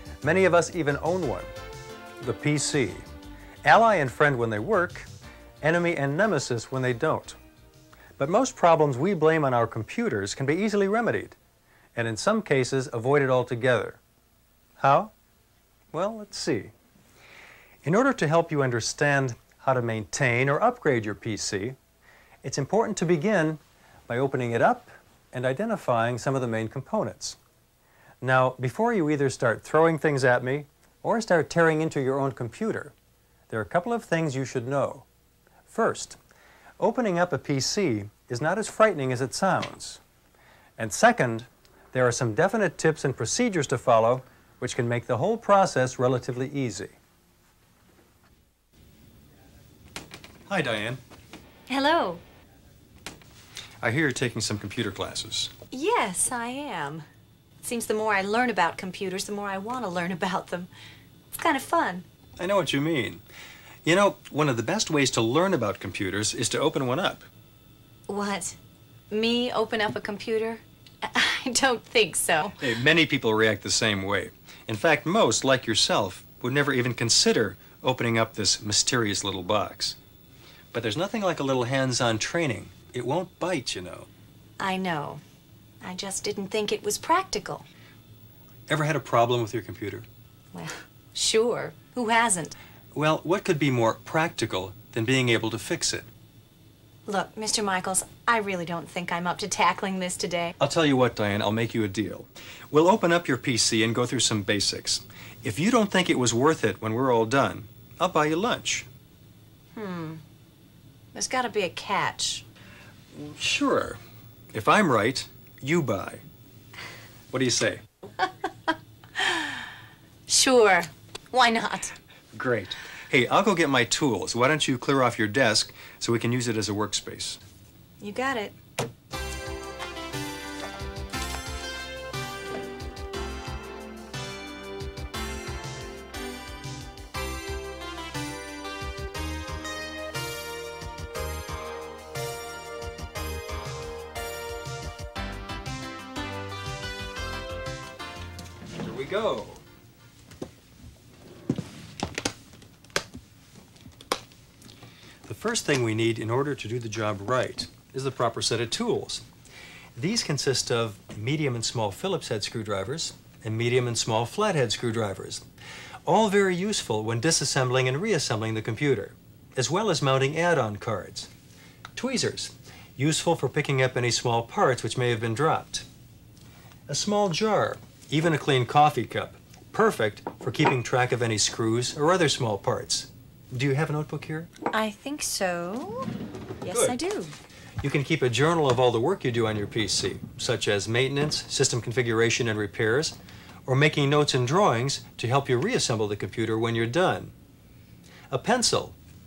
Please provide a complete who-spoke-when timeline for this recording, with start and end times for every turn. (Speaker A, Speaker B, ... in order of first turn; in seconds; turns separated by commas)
Speaker A: 0.2-1.5, Speaker A: 2.2-3.0, Speaker A: 3.6-5.1, Speaker A: 5.6-7.4, Speaker A: 8.2-11.4, Speaker A: 11.9-14.0, Speaker A: 14.8-15.1, Speaker A: 15.9-16.7, Speaker A: 17.8-21.8, Speaker A: 22.4-27.4, Speaker A: 28.2-32.9, Speaker A: 33.5-35.0, Speaker A: 35.7-36.2, Speaker A: 36.8-40.0, Speaker A: 40.8-46.9, Speaker A: 50.5-51.0, Speaker B: 51.7-52.2, Speaker A: 53.8-55.5, Speaker B: 55.7-57.0, Speaker B: 57.6-60.7, Speaker B: 61.3-62.0, Speaker A: 62.4-63.2, Speaker A: 63.8-67.3, Speaker B: 68.1-68.6, Speaker B: 69.1-72.6, Speaker A: 72.6-80.0, Speaker A: 80.7-84.1, Speaker B: 84.6-85.2, Speaker B: 85.8-87.7, Speaker A: 88.7-90.0, Speaker B: 90.5-92.5, Speaker A: 92.9-96.1, Speaker B: 97.0-100.5, Speaker A: 100.6-108.9, Speaker B: 109.7-110.2, Speaker B: 111.1-112.4, Speaker A: 113.1-114.0, Speaker A: 114.5-116.2, Speaker A: 117.3-117.8, Speaker B: 119.2-119.6, Speaker B: 120.3-122.0, Speaker A: 122.3-127.4, Speaker B: 128.0-128.5, Speaker A: 148.7-149.6, Speaker A: 155.2-159.2, Speaker A: 159.9-165.4, Speaker A: 166.1-171.3, Speaker A: 171.9-175.8, Speaker A: 176.9-184.5, Speaker B: 184.7-186.1, Speaker B: 186.6-187.3, Speaker A: 186.7-187.0, Speaker A: 187.8-197.3, Speaker A: 198.3-198.9